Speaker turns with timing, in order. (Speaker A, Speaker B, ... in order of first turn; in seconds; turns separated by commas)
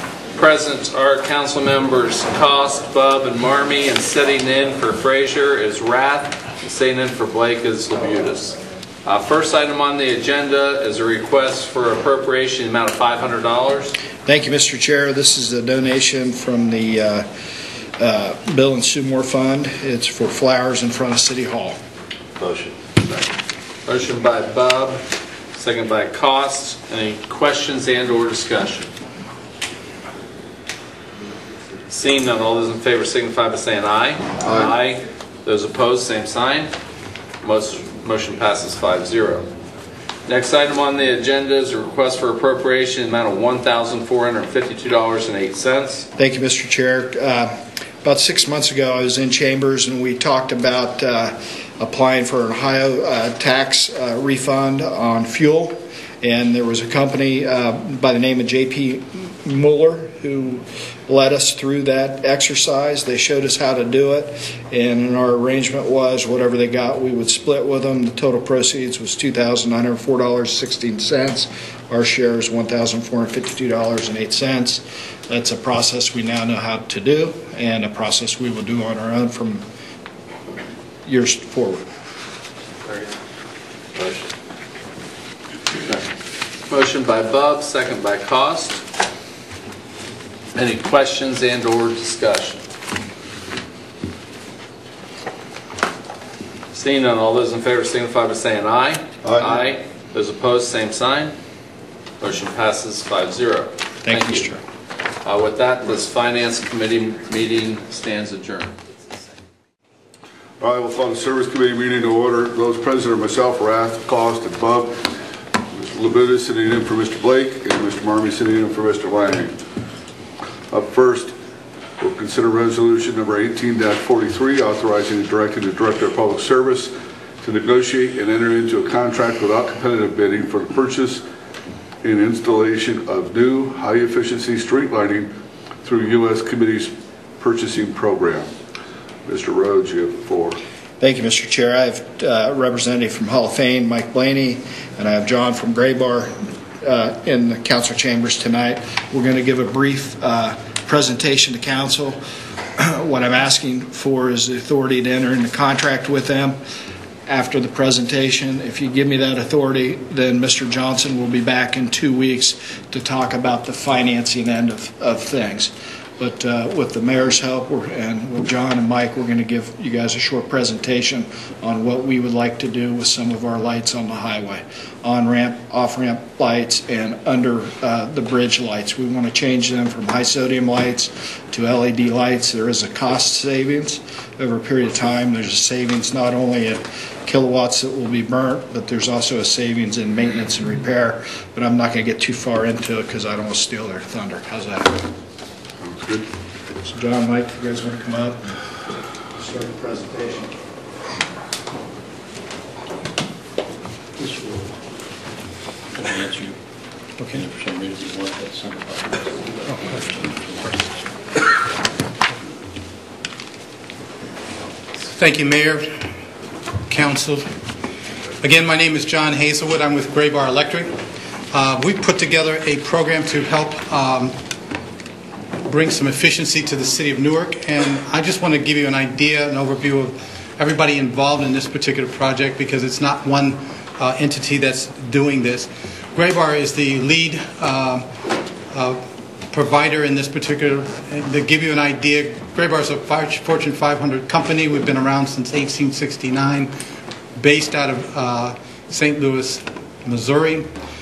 Speaker A: 0.3-14.0, Speaker B: 14.2-17.3, Speaker B: 17.9-21.8, Speaker C: 22.4-22.7, Speaker A: 23.9-28.9, Speaker A: 31.9-36.7, Speaker A: 37.4-39.5, Speaker A: 40.3-46.1, Speaker B: 46.2-79.6, Speaker B: 81.0-81.8, Speaker A: 86.7-88.8, Speaker A: 90.5-92.7, Speaker A: 96.7-101.3, Speaker D: 99.2-99.6, Speaker A: 102.2-104.5, Speaker B: 104.0-104.6, Speaker A: 105.2-108.8, Speaker D: 110.6-115.1, Speaker D: 115.7-119.6, Speaker D: 120.7-121.3, Speaker D: 122.0-131.2, Speaker D: 132.0-138.5, Speaker D: 139.2-140.6, Speaker B: 141.0-152.2, Speaker B: 152.8-156.6, Speaker B: 157.2-195.0, Speaker D: 195.8-196.2, Speaker B: 196.8-198.5, Speaker B: 199.3-200.5, Speaker C: 204.2-204.8, Speaker C: 205.9-206.6, Speaker E: 207.2-207.4, Speaker C: 207.3-210.9, Speaker E: 215.1-216.1, Speaker E: 216.9-217.5, Speaker E: 218.4-224.4, Speaker E: 225.6-238.1, Speaker E: 238.7-246.7, Speaker E: 247.4-250.7